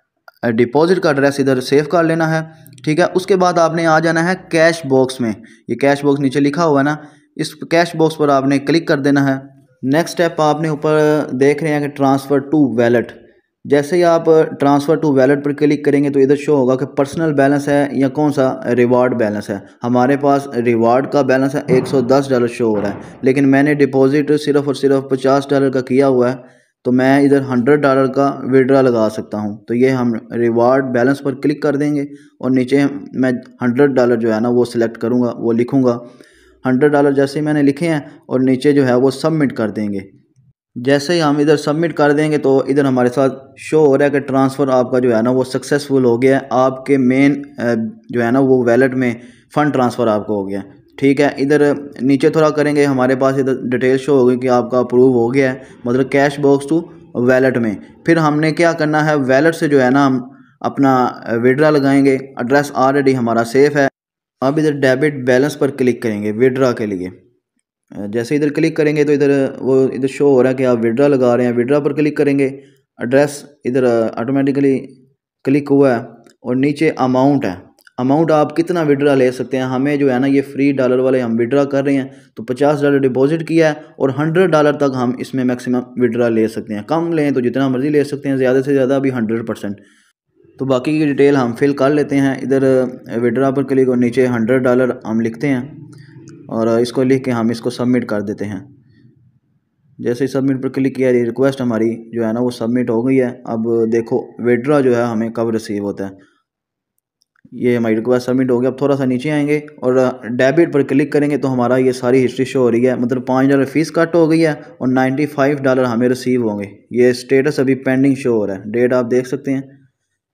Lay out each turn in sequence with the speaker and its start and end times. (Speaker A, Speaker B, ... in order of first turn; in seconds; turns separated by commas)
Speaker A: 0.4-36.0, Speaker A: 36.6-40.1, Speaker A: 40.8-67.1, Speaker A: 68.0-89.8, Speaker A: 90.6-95.8, Speaker A: 96.5-98.7, Speaker A: 100.0-106.2, Speaker A: 107.5-119.7